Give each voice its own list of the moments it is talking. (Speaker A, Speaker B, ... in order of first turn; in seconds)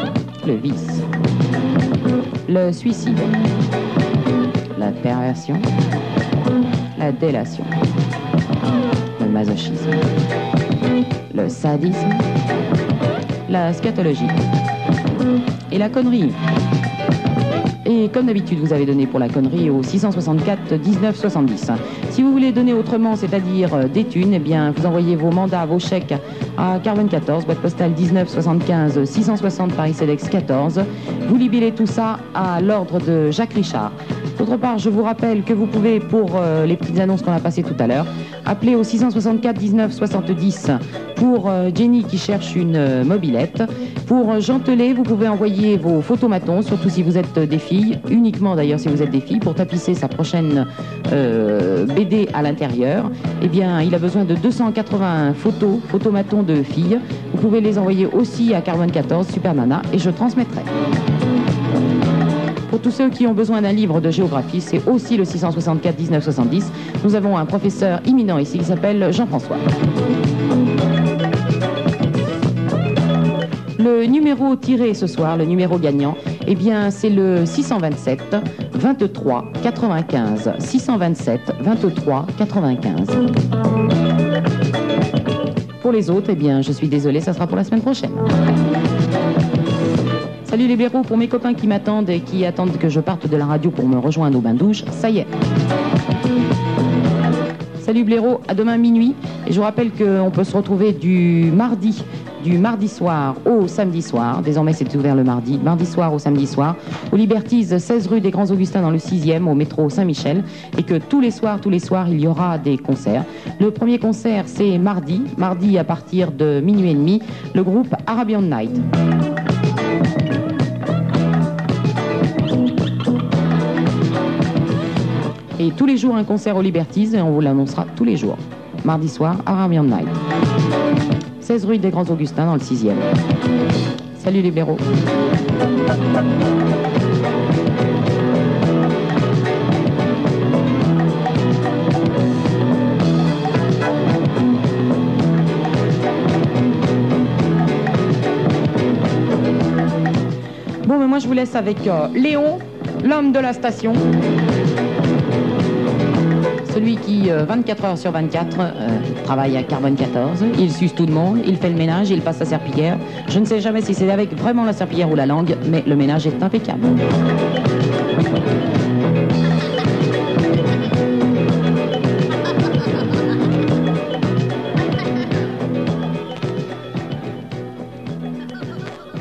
Speaker A: 0.4-1.0, 2.5-3.3, 4.7-5.6, 7.0-7.7, 9.2-10.0, 11.3-12.2, 13.5-14.3, 15.7-16.4, 17.8-60.7, 62.7-69.6, 73.8-83.2, 85.8-88.3, 90.5-95.3, 97.8-118.8, 125.6-130.2, 131.4-133.1, 134.2-134.8, 150.8-154.0, 156.7-167.0